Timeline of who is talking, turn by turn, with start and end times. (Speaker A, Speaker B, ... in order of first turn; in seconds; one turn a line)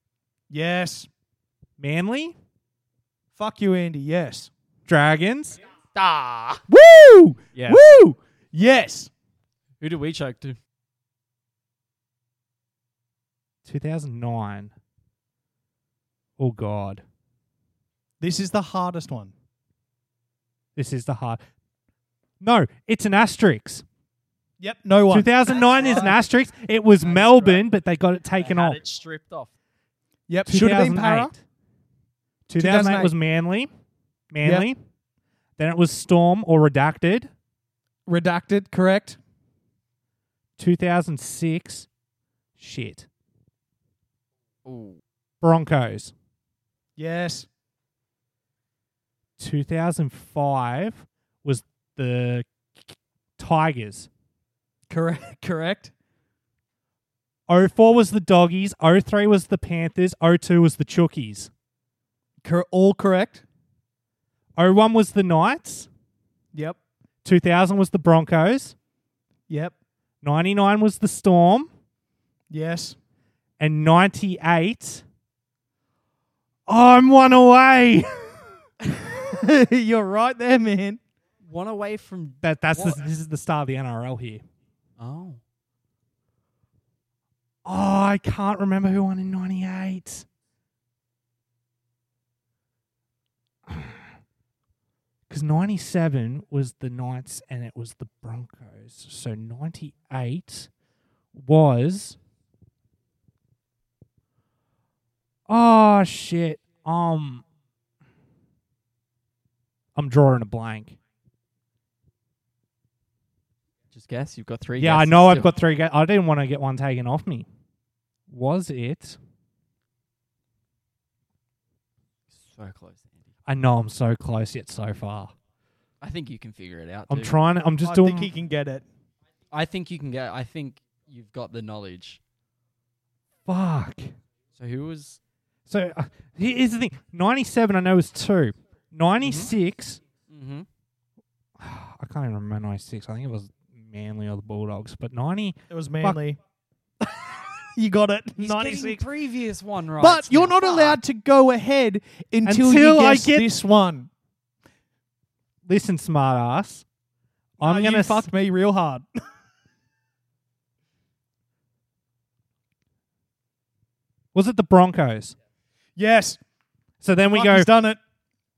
Speaker A: 0.5-1.1
Speaker B: 1.8-2.4
Speaker A: 3.3-4.5
Speaker B: 4.9-5.6
Speaker C: 5.9-6.6
Speaker A: 6.7-9.1
Speaker C: 7.5-7.8
Speaker C: 9.8-10.6
Speaker B: 13.6-14.7
Speaker B: 16.4-17.0
Speaker A: 18.2-19.3
Speaker B: 20.8-21.4
Speaker B: 22.4-23.8
Speaker A: 24.6-25.9
Speaker B: 25.1-28.8
Speaker C: 25.5-26.1
Speaker C: 27.0-27.7
Speaker C: 28.3-29.5
Speaker A: 30.3-31.3
Speaker B: 30.4-31.4
Speaker B: 32.5-33.7
Speaker A: 32.6-33.1
Speaker B: 34.3-34.8
Speaker B: 35.6-37.3
Speaker A: 38.1-39.2
Speaker B: 40.6-41.9
Speaker B: 42.6-43.1
Speaker C: 44.6-45.0
Speaker B: 45.4-46.1
Speaker A: 47.0-47.5
Speaker B: 49.4-54.1
Speaker A: 54.9-55.9
Speaker B: 57.5-61.5
Speaker A: 62.4-63.4
Speaker B: 64.6-65.9
Speaker B: 67.2-68.7
Speaker A: 69.5-69.7
Speaker B: 70.2-71.7
Speaker A: 72.5-73.0
Speaker B: 73.6-75.0
Speaker B: 76.7-78.5
Speaker A: 78.9-81.0
Speaker C: 81.4-83.0
Speaker B: 82.4-84.4
Speaker C: 85.0-85.4
Speaker B: 87.6-90.2
Speaker B: 93.7-94.0
Speaker B: 95.3-100.7
Speaker B: 101.3-102.2
Speaker B: 105.5-107.4
Speaker B: 109.9-111.0
Speaker C: 113.9-115.5
Speaker B: 114.8-117.5
Speaker B: 118.3-119.2
Speaker C: 122.3-123.3
Speaker B: 123.5-125.3
Speaker C: 126.0-127.4
Speaker B: 127.1-128.3
Speaker A: 127.8-128.8
Speaker C: 129.5-132.2
Speaker B: 133.4-134.1
Speaker C: 134.6-135.2
Speaker B: 135.7-140.0
Speaker C: 139.2-139.5
Speaker C: 140.3-140.7
Speaker B: 141.6-146.2
Speaker A: 145.7-146.4
Speaker A: 147.0-149.0
Speaker C: 148.4-151.0
Speaker A: 150.0-154.1
Speaker B: 152.4-153.5
Speaker B: 155.7-156.8
Speaker B: 157.6-158.3
Speaker A: 157.6-159.0
Speaker B: 164.3-165.3
Speaker A: 166.0-166.4
Speaker B: 167.0-167.7
Speaker A: 167.3-168.0